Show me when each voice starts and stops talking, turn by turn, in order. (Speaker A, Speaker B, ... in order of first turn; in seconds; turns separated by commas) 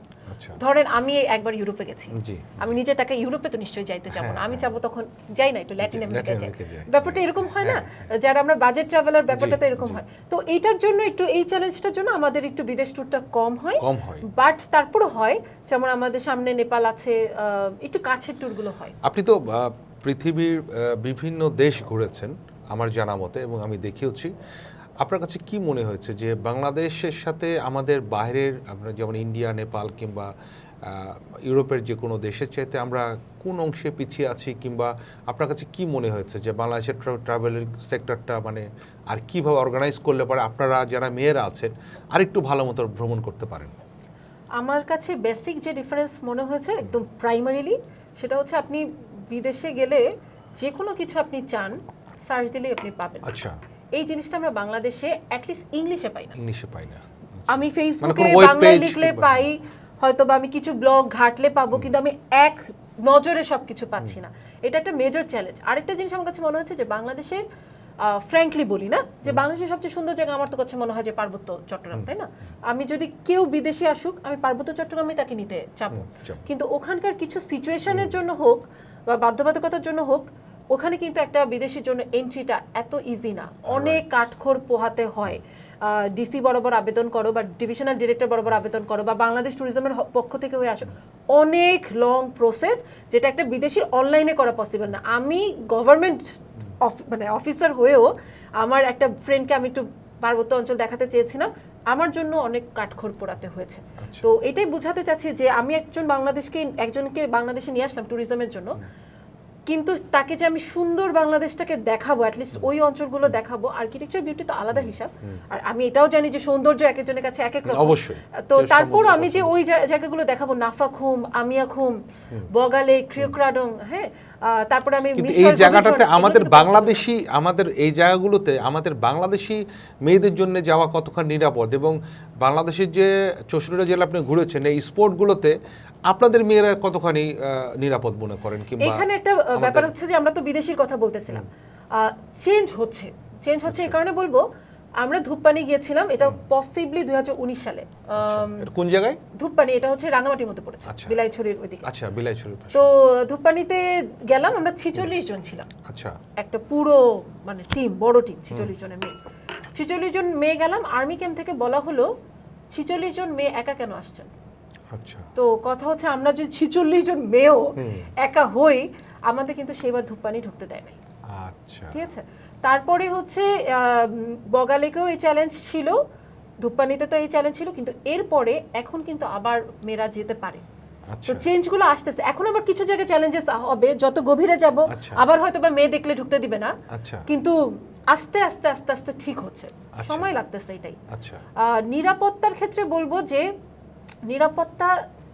Speaker A: 0.3-0.6, Speaker B: 0.6-18.9, Speaker A: 2.1-2.7, Speaker A: 4.1-4.7, Speaker A: 5.8-8.1, Speaker A: 9.3-10.0, Speaker A: 13.8-14.2, Speaker A: 19.0-24.3, Speaker A: 25.0-30.3, Speaker A: 30.8-43.7, Speaker B: 44.6-50.1, Speaker B: 50.6-53.4, Speaker A: 53.2-53.6, Speaker B: 53.9-56.3, Speaker A: 56.4-59.5, Speaker B: 57.5-67.4, Speaker B: 68.0-108.8, Speaker A: 75.9-76.5, Speaker A: 77.9-78.2, Speaker A: 83.7-84.0, Speaker A: 104.0-104.3, Speaker B: 109.7-127.0, Speaker A: 114.7-115.4, Speaker A: 117.6-119.5, Speaker A: 125.1-135.5, Speaker A: 136.1-139.9, Speaker B: 138.8-144.4, Speaker A: 143.7-144.0, Speaker B: 145.0-148.7, Speaker A: 148.2-149.2, Speaker B: 149.3-151.9, Speaker A: 150.9-151.2, Speaker A: 151.8-152.9, Speaker B: 152.7-155.7, Speaker A: 155.8-156.2, Speaker B: 156.4-159.1, Speaker B: 159.7-162.1, Speaker B: 162.7-164.3, Speaker A: 164.9-165.3, Speaker B: 165.3-171.0, Speaker A: 167.8-168.1, Speaker A: 171.3-172.0, Speaker B: 171.9-176.0, Speaker B: 176.6-180.6, Speaker A: 181.1-181.5, Speaker B: 181.2-186.8, Speaker A: 184.9-185.2, Speaker A: 186.9-187.2, Speaker B: 187.3-187.6, Speaker B: 188.1-191.0, Speaker A: 189.9-190.3, Speaker A: 191.1-191.4, Speaker B: 191.6-193.5, Speaker B: 194.3-195.0